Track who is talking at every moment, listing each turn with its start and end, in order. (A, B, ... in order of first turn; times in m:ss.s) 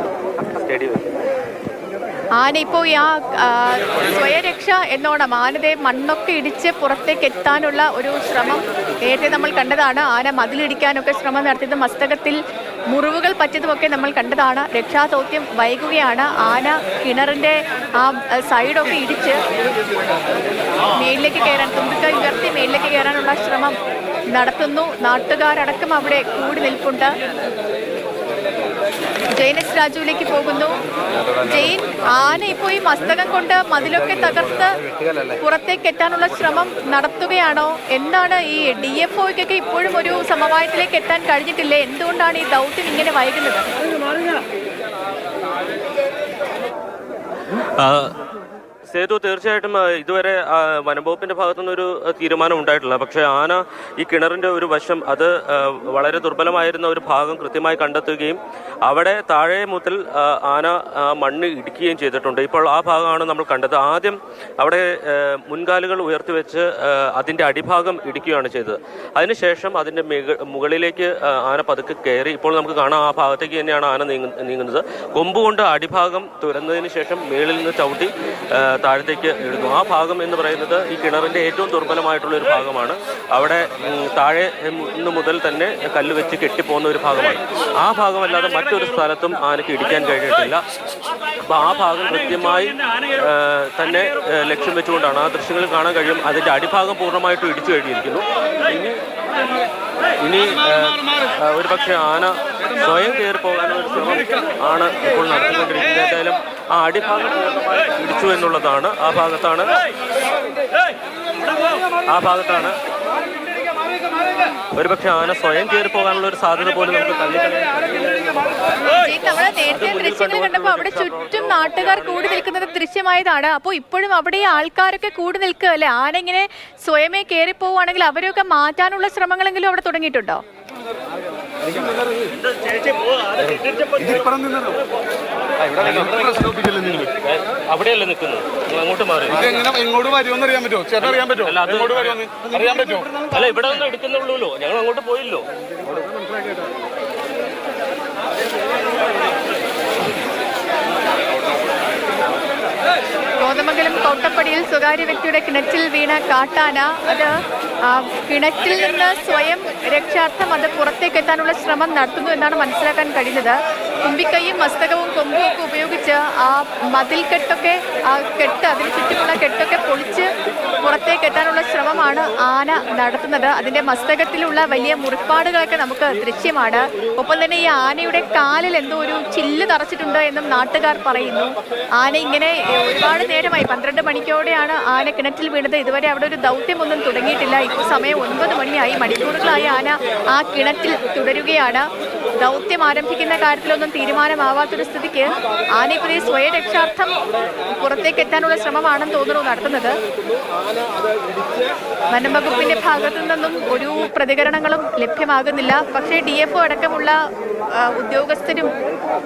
0:00.5-0:01.1 A
0:02.4-0:12.4 B
0:12.9-0:19.4 B
0:21.0-0:23.8 B
0:24.3-0:27.1 B
0:29.3-0:30.8 B
0:31.4-0:34.8 B
0:35.4-0:43.7 B
0:47.6-0:48.2 A
0:48.9-1:30.6 A
1:31.5-1:39.0 A
1:40.2-1:49.7 A
1:52.1-1:52.7 A
1:54.8-1:58.4 A
1:59.0-2:10.4 B
1:59.0-2:02.0 A
2:12.6-2:14.2 A
2:14.0-2:14.8 C
2:15.7-2:19.6 A
2:19.5-2:21.5 C
2:21.0-2:25.5 A
2:22.1-2:23.1 C
2:33.4-2:37.3 B
2:37.8-2:50.3 B
2:50.8-3:11.9 B
3:12.4-3:20.0 B
3:22.1-3:27.2 B
3:27.8-3:28.7 B